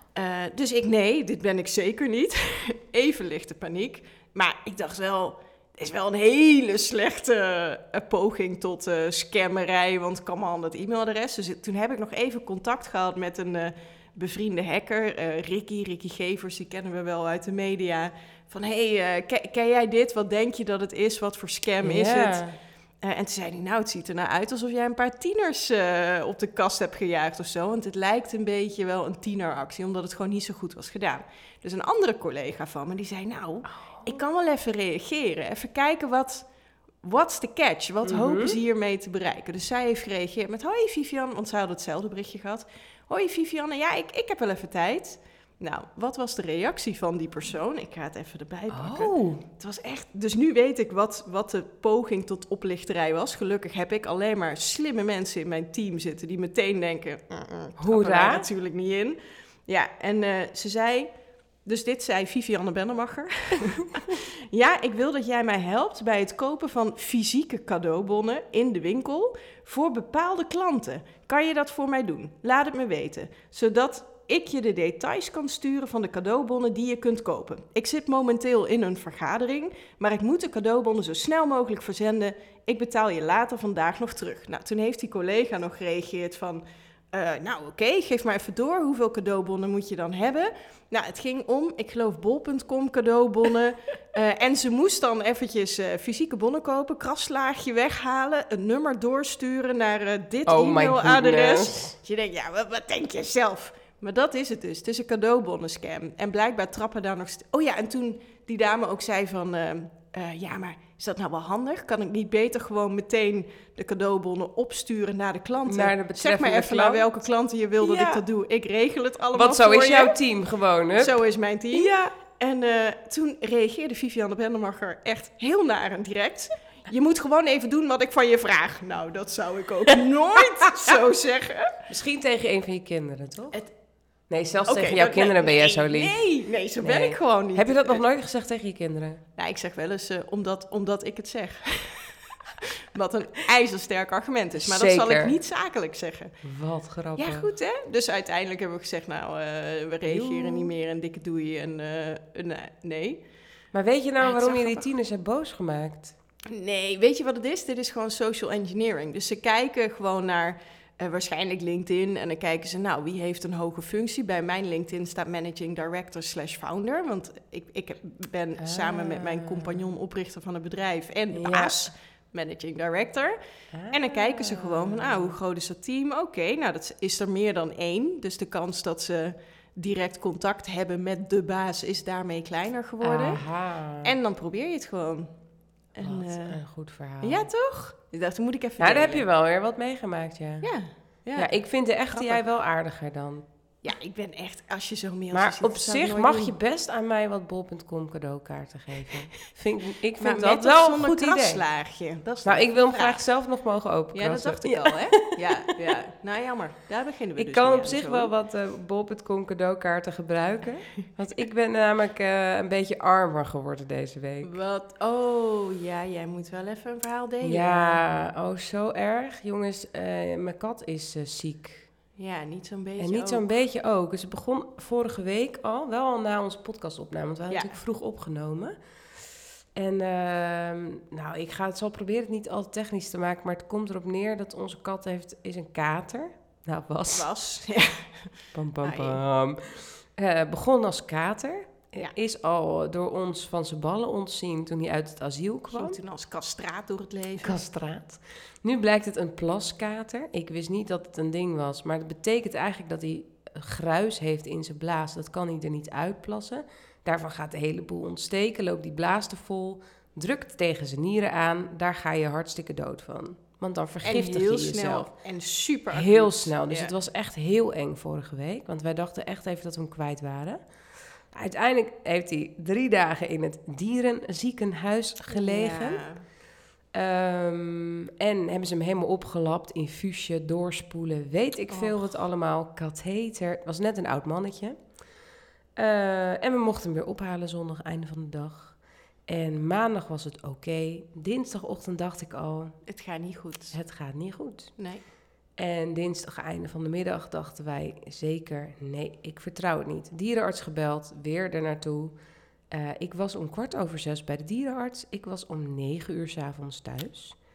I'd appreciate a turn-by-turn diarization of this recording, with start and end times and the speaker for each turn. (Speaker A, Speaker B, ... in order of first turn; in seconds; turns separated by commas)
Speaker A: 0.1-22.4, Speaker B: 21.8-22.6, Speaker A: 23.0-36.5, Speaker B: 33.7-34.2, Speaker A: 37.0-61.1, Speaker B: 38.0-38.6, Speaker B: 48.7-49.4, Speaker B: 57.8-58.5, Speaker A: 61.6-120.2, Speaker B: 100.5-101.9, Speaker B: 115.7-117.1, Speaker B: 117.8-118.2, Speaker B: 119.3-121.2, Speaker A: 121.0-131.8, Speaker B: 121.7-122.1, Speaker B: 131.9-133.6, Speaker B: 134.3-136.2, Speaker A: 134.7-138.0, Speaker B: 136.8-139.2, Speaker A: 139.4-146.3, Speaker B: 144.6-145.4, Speaker B: 146.4-147.5, Speaker A: 147.2-153.2, Speaker B: 150.1-150.7, Speaker B: 153.7-156.2, Speaker A: 154.2-154.9, Speaker A: 156.5-173.3, Speaker B: 168.6-169.8, Speaker B: 171.3-171.9, Speaker B: 173.7-175.4, Speaker A: 173.9-183.4, Speaker B: 183.0-184.2, Speaker A: 184.0-185.3, Speaker A: 185.9-186.6, Speaker B: 186.0-187.5, Speaker A: 187.2-189.2, Speaker B: 188.8-190.7, Speaker A: 190.6-191.5, Speaker B: 191.3-193.4, Speaker A: 192.1-192.4, Speaker A: 193.8-196.6, Speaker B: 195.3-201.6, Speaker A: 200.2-203.2, Speaker B: 202.4-205.3, Speaker A: 204.1-208.3, Speaker B: 207.4-214.5, Speaker A: 214.4-218.0, Speaker B: 217.4-221.9, Speaker A: 222.2-223.4, Speaker B: 223.0-228.8, Speaker A: 227.5-227.8, Speaker B: 229.7-237.3, Speaker A: 237.1-238.3, Speaker B: 238.5-246.0, Speaker A: 238.8-239.2, Speaker A: 245.7-247.6, Speaker B: 247.4-265.1, Speaker A: 264.0-266.9, Speaker B: 265.9-270.6, Speaker B: 271.3-276.0, Speaker A: 275.3-276.2, Speaker B: 276.9-284.8, Speaker A: 281.7-282.1, Speaker B: 285.8-292.8, Speaker A: 292.9-293.8, Speaker B: 293.7-294.7, Speaker A: 294.8-295.0, Speaker B: 295.6-302.1, Speaker B: 302.7-307.4